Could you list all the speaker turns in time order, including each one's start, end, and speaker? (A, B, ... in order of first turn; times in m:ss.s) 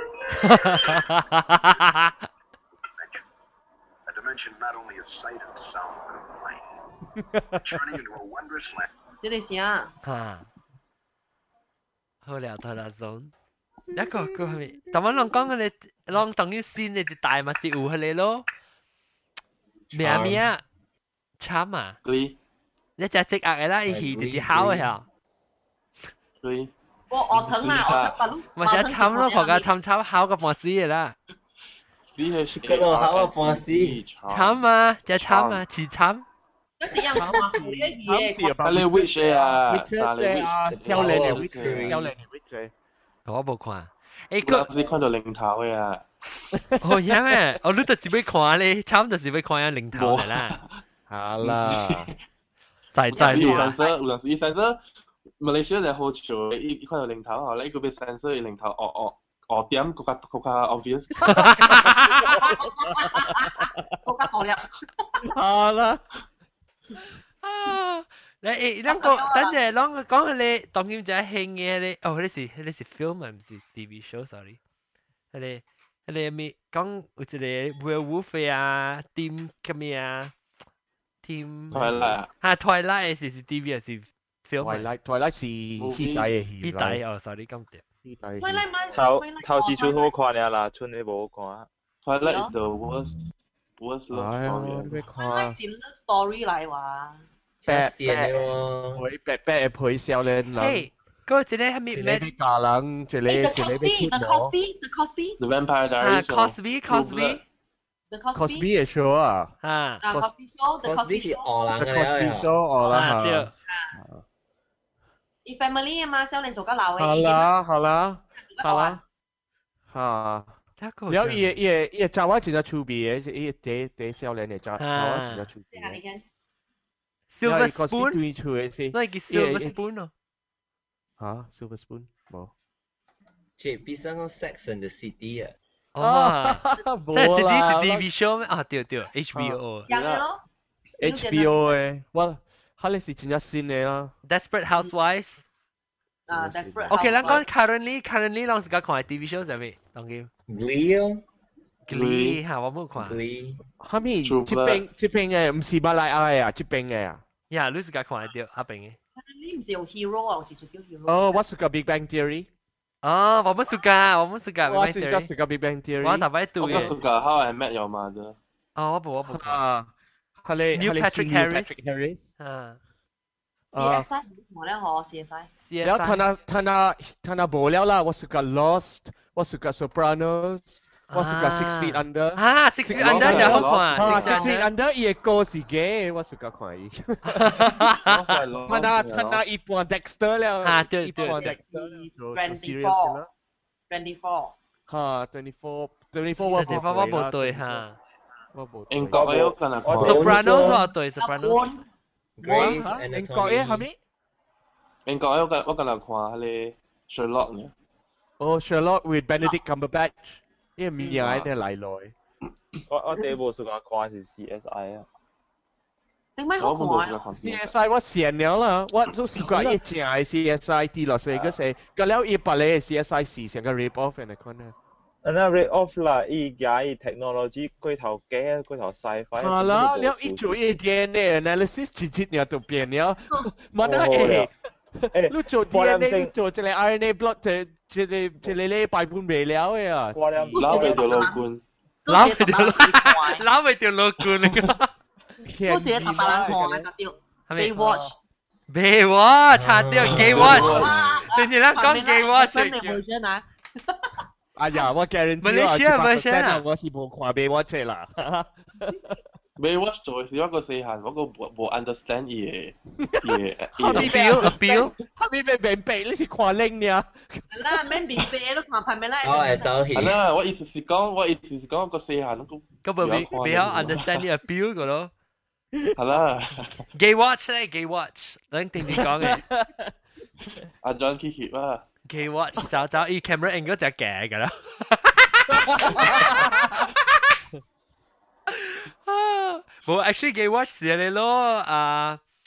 0:00.3-0:02.3 A
0:03.0-0:03.2 B
0:04.1-0:06.6 B
0:07.2-0:07.6 C
0:07.5-0:08.9 B
0:09.2-0:09.9 D
0:10.0-0:10.5 A
0:12.2-0:13.3 A
0:13.9-0:15.5 C
0:13.9-0:18.4 A
0:19.9-0:20.5 E
0:19.9-0:20.6 A
0:21.4-0:22.0 A
0:22.0-0:22.4 F
0:23.0-0:25.0 A
0:23.9-0:24.9 E
0:26.4-0:26.7 F
0:27.1-0:29.7 D
0:27.3-0:28.2 F
0:28.6-0:31.2 A
0:32.1-0:34.6 F
0:32.5-0:34.0 E
0:34.3-0:36.2 A
0:35.1-0:35.6 F
0:36.8-0:38.6 D
0:37.0-0:42.7 C
0:38.6-0:42.1 F
0:40.7-0:42.1 E
0:43.3-0:44.7 A
0:44.4-0:46.1 F
0:46.6-0:46.8 C
0:46.8-0:50.6 A
0:49.9-0:50.8 F
0:51.1-0:52.1 C
0:51.4-0:52.2 F
0:52.9-0:53.7 A
0:53.1-0:54.8 F
0:53.1-0:54.0 D
0:55.4-1:01.7 F
1:01.3-1:02.3 A
1:01.4-1:03.8 C
1:02.3-1:05.2 D
1:05.3-1:06.0 C
1:07.4-1:14.6 A
1:08.9-1:09.6 D
1:15.3-1:20.3 A
1:21.2-1:24.9 A
1:21.7-1:22.3 F
1:21.7-1:22.2 C
1:24.6-1:27.0 C
1:25.8-1:26.4 F
1:26.6-1:27.8 A
1:28.0-1:28.6 C
1:28.4-1:30.1 D
1:28.9-1:31.7 G
1:32.0-1:33.2 F
1:32.2-1:32.5 D
1:33.8-1:35.0 F
1:34.1-1:35.6 C
1:35.2-1:37.2 D
1:37.6-1:39.0 E
1:37.6-1:40.9 C
1:40.6-1:42.3 A
1:41.9-1:44.5 C
1:43.3-1:45.4 D
1:45.4-1:47.4 F
1:46.0-1:47.4 A
1:48.1-1:48.7 D
1:48.3-1:49.5 C
1:49.6-1:50.0 A
1:50.0-1:51.5 D
1:50.8-1:52.5 E
1:51.7-1:54.2 C
1:52.9-1:53.5 A
1:53.7-1:53.9 D
1:55.4-1:57.5 D
1:57.0-1:59.0 C
1:58.4-1:59.0 D
1:59.9-2:00.6 C
2:00.8-2:01.6 A
2:01.1-2:06.0 C
2:04.8-2:05.5 A
2:05.7-2:06.2 D
2:07.3-2:08.2 A
2:07.4-2:09.7 C
2:08.9-2:10.1 A
2:11.2-2:12.5 C
2:13.6-2:15.5 E
2:16.0-2:19.9 A
2:16.0-2:18.1 C
2:19.4-2:19.6 C
2:19.9-2:20.2 F
2:19.9-2:20.4 D
2:21.0-2:24.1 C
2:21.0-2:21.6 D
2:24.3-2:25.4 A
2:26.3-2:27.4 D
2:26.3-2:27.4 C
2:26.9-2:30.3 A
2:30.5-2:31.2 E
2:31.9-2:33.2 A
2:31.9-2:32.4 F
2:32.9-2:33.6 E
2:33.8-2:37.2 C
2:34.2-2:34.8 F
2:37.5-2:39.0 A
2:39.2-2:41.4 D
2:41.1-2:42.5 C
2:43.0-2:45.3 A
2:44.6-2:47.0 C
2:46.0-2:46.9 A
2:46.6-2:48.4 F
2:48.8-2:49.6 A
2:49.3-2:49.9 C
2:50.4-2:52.2 C
2:50.7-2:51.8 A
2:52.4-2:52.8 A
2:53.7-2:55.5 D
2:53.7-2:54.1 C
2:55.6-2:56.2 A
2:55.8-3:07.9 C
3:01.1-3:04.7 A
3:02.9-3:04.5 F
3:07.2-3:08.2 A
3:07.8-3:09.4 F
3:08.6-3:13.3 C
3:10.6-3:11.5 A
3:11.2-3:13.2 D
3:13.9-3:14.5 D
3:14.9-3:17.8 C
3:16.5-3:18.0 A
3:18.5-3:19.3 C
3:18.9-3:20.7 F
3:19.1-3:20.8 G
3:20.0-3:20.8 E
3:20.0-3:21.7 A
3:21.2-3:21.8 D
3:22.4-3:23.9 E
3:22.4-3:24.0 C
3:25.1-3:27.7 F
3:28.4-3:32.1 C
3:31.0-3:31.5 F
3:32.9-3:35.1 G
3:36.4-3:37.2 D
3:36.6-3:37.7 F
3:37.3-3:44.7 C
3:45.2-3:50.6 G
3:49.4-4:00.6 C
3:53.8-3:54.5 G
3:55.1-3:56.3 G
4:00.1-4:01.3 G
4:00.5-4:01.4 D
4:00.6-4:01.6 F
4:02.0-4:03.4 D
4:02.1-4:04.9 A
4:04.3-4:04.7 F
4:05.4-4:06.9 C
4:05.7-4:08.1 D
4:07.5-4:07.8 A
4:08.7-4:13.0 A
4:09.5-4:11.3 E
4:10.0-4:11.0 F
4:10.6-4:14.2 D
4:14.6-4:19.2 C
4:15.4-4:16.6 A
4:19.6-4:24.6 F
4:23.0-4:28.2 C
4:23.9-4:24.9 A
4:27.5-4:29.7 D
4:29.2-4:30.2 E
4:29.9-4:34.2 F
4:32.8-4:35.1 A
4:36.0-4:36.8 F
4:36.9-4:39.4 A
4:38.9-4:39.9 C
4:40.4-4:41.8 F
4:42.1-4:47.3 A
4:45.6-4:46.8 C
4:48.5-4:52.2 A